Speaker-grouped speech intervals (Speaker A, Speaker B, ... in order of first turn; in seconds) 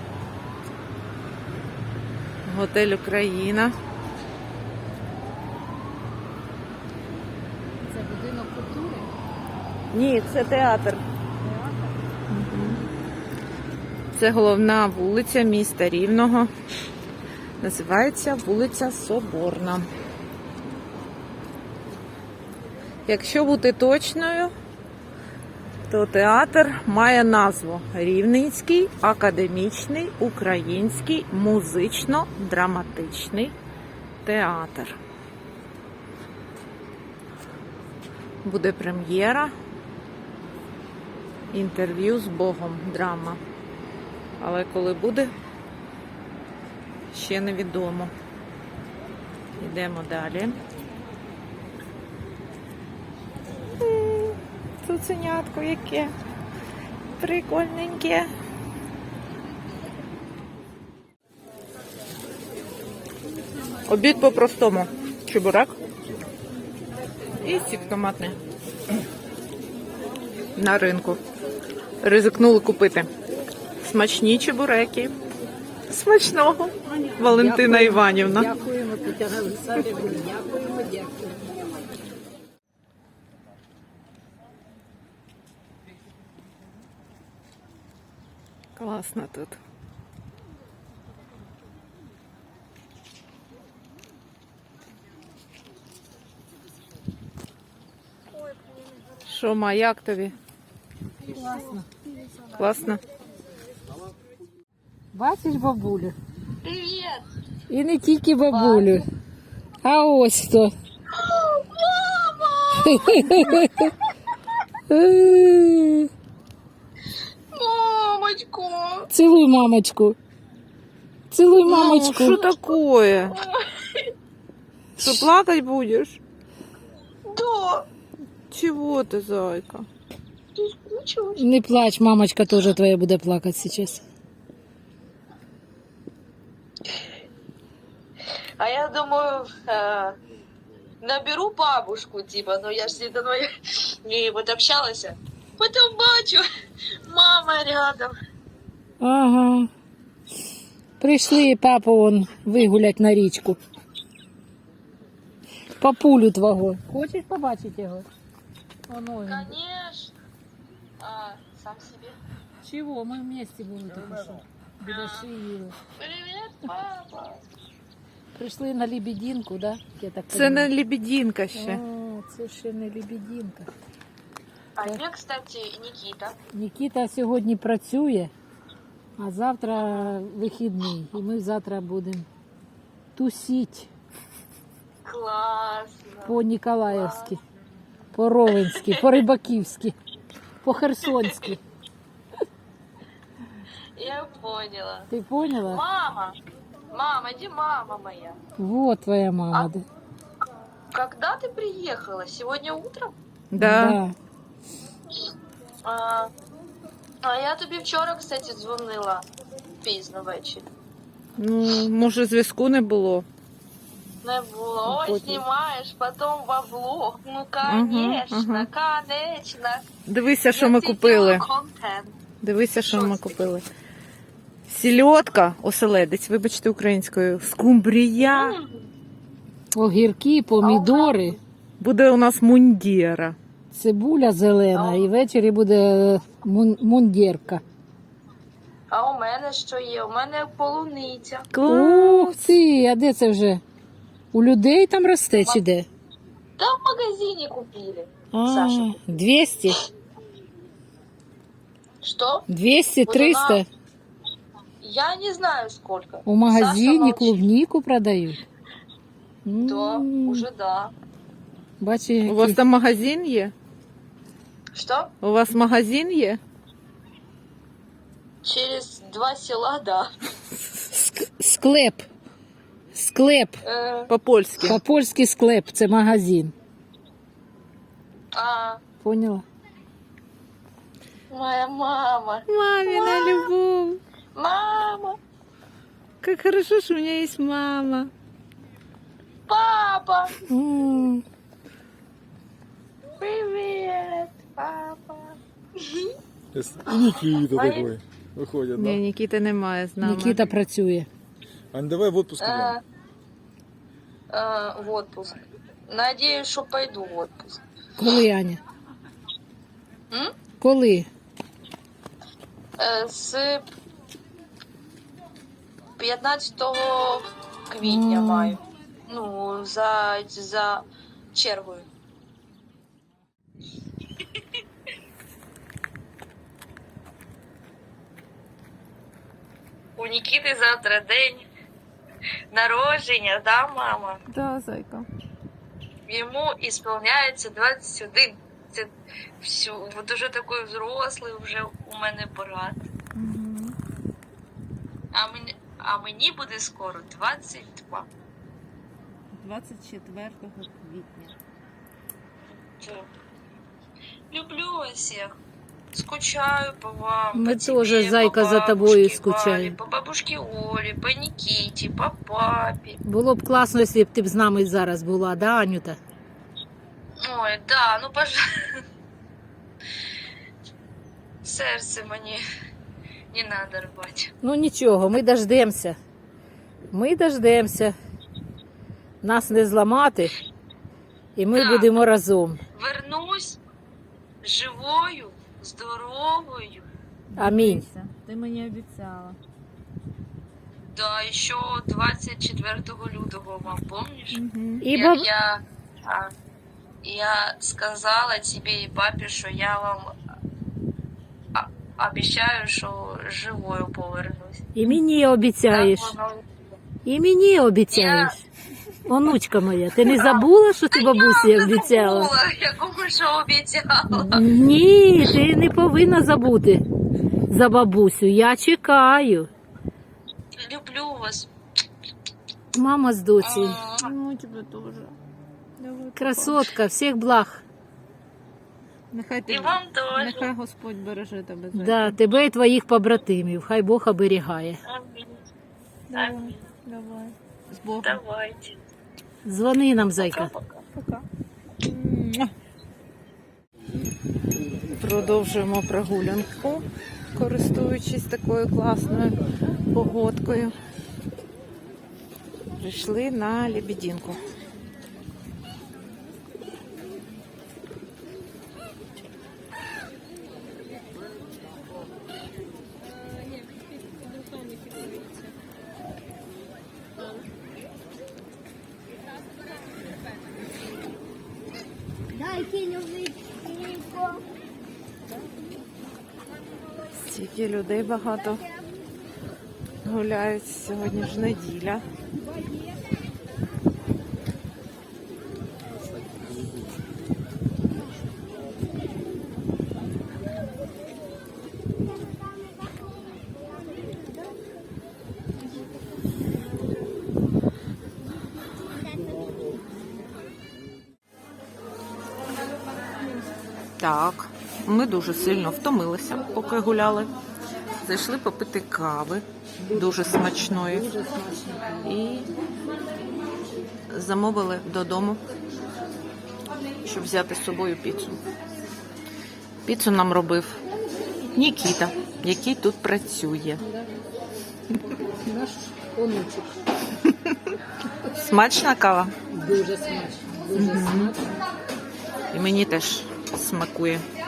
Speaker A: 2.4-3.7, 9.9-11.0, 12.3-12.8, 14.1-16.5, 17.6-19.9, 23.1-24.5, 25.9-33.5, 34.2-34.9, 38.4-39.5, 41.5-43.4, 44.4-45.3, 47.1-48.1, 49.6-50.5, 53.8-56.1, 57.2-58.3, 63.9-65.7, 67.4-68.4, 70.5-71.2, 72.0-73.1, 73.8-75.1, 75.9-78.5, 88.8-89.6, 99.2-100.3, 102.5-103.0, 121.7-123.4, 125.0-126.2, 128.5-129.8, 170.3-171.8, 203.5-204.0, 211.4-213.2, 214.8-215.4, 217.6-218.7, 220.1-221.4, 222.4-223.6, 224.7-228.6, 231.8-233.3, 241.5-242.5, 262.2-263.5, 265.2-266.4, 274.1-274.8, 282.5-284.0, 286.2-288.1, 298.8-300.4, 334.3-335.1, 343.1-343.8, 349.3-351.3, 387.3-389.4, 394.3-394.8, 424.0-425.1, 425.8-426.7, 429.1-432.2, 436.1-438.2, 440.9-441.2, 441.8-442.5, 444.9-449.3, 449.9-450.7, 452.8-454.4, 477.2-478.6, 480.0-482.0, 504.0-507.3, 508.0-511.1, 512.0-512.5, 514.1-515.4, 517.0-518.4, 519.8-520.8, 521.5-523.8, 527.2-527.7, 528.4-529.3, 530.7-531.3, 532.5-534.2
Speaker B: 7.8-9.1, 77.2-81.4, 101.2-101.9, 105.1-106.2, 107.7-109.0, 109.8-110.7, 112.7-113.9, 114.9-116.1, 119.1-120.2, 121.3-122.4, 131.3-134.0, 149.0-149.7, 151.0-153.6, 155.8-158.1, 158.9-159.5, 162.6-165.8, 168.3-170.7, 171.5-173.7, 176.5-178.3, 179.2-182.3, 183.1-183.9, 186.2-187.4, 188.1-189.9, 190.6-191.6, 195.1-195.8, 198.6-199.8, 203.6-204.1, 229.7-231.4, 233.7-237.6, 241.7-243.6, 244.3-245.8, 248.3-249.8, 252.5-253.6, 256.2-258.4, 259.4-260.4, 261.8-262.6, 270.9-272.0, 272.9-273.6, 274.6-276.5, 279.0-279.4, 290.5-291.2, 300.0-301.1, 308.0-308.6, 310.6-311.1, 317.8-318.6, 357.3-359.8, 363.1-366.0, 374.4-376.0, 376.9-378.0, 379.2-380.3, 381.4-382.6, 387.4-387.8, 394.8-395.3, 404.7-406.1, 407.0-408.4, 409.1-412.3, 414.1-416.8, 417.5-419.5, 422.7-423.8, 426.1-427.6, 431.7-434.8, 439.4-440.5, 509.8-512.1, 523.8-524.1, 525.1-526.7, 529.5-531.6
Speaker C: 106.6-107.2, 108.5-109.0, 111.1-113.2, 117.5-119.1, 122.2-122.8, 123.3-124.1, 127.2-127.9, 130.6-131.4, 138.6-140.2, 141.0-146.5, 147.1-148.2, 159.3-160.1, 161.0-162.2, 164.9-165.2, 165.8-167.4, 174.8-176.4, 179.8-180.1, 185.0-187.3, 188.6-189.1, 193.9-195.1, 195.7-196.4, 196.9-198.4, 200.9-203.1, 205.8-206.3, 207.2-209.2, 209.8-210.7, 214.2-219.8, 220.4-222.1, 222.8-223.4, 228.2-228.9, 230.6-231.4, 234.7-235.1, 238.9-241.4, 245.3-245.6, 246.6-249.0, 252.0-252.4, 253.0-253.6, 254.8-257.4, 259.7-260.9, 264.7-265.1, 268.4-270.1, 273.6-274.1, 278.3-278.8, 281.3-283.5, 284.4-285.2, 289.5-290.3, 293.2-296.1, 297.5-297.9, 302.4-302.8, 304.3-307.6, 312.8-313.6, 316.0-321.9, 330.0-331.5, 332.5-334.2, 336.1-342.8, 345.1-348.1, 352.8-353.1, 354.3-355.3, 355.9-363.0, 367.3-368.4, 371.4-372.4, 373.3-374.3, 381.5-381.9, 382.7-383.6, 384.4-386.9, 390.9-394.4, 394.9-396.3, 397.0-400.1, 401.5-404.7, 405.7-406.4, 407.9-408.4, 410.1-414.4, 420.6-421.5, 423.4-424.1, 429.5-430.5, 434.9-435.4, 436.1-436.5, 438.0-438.7, 440.2-440.8
Speaker D: 296.5-299.0, 301.7-302.8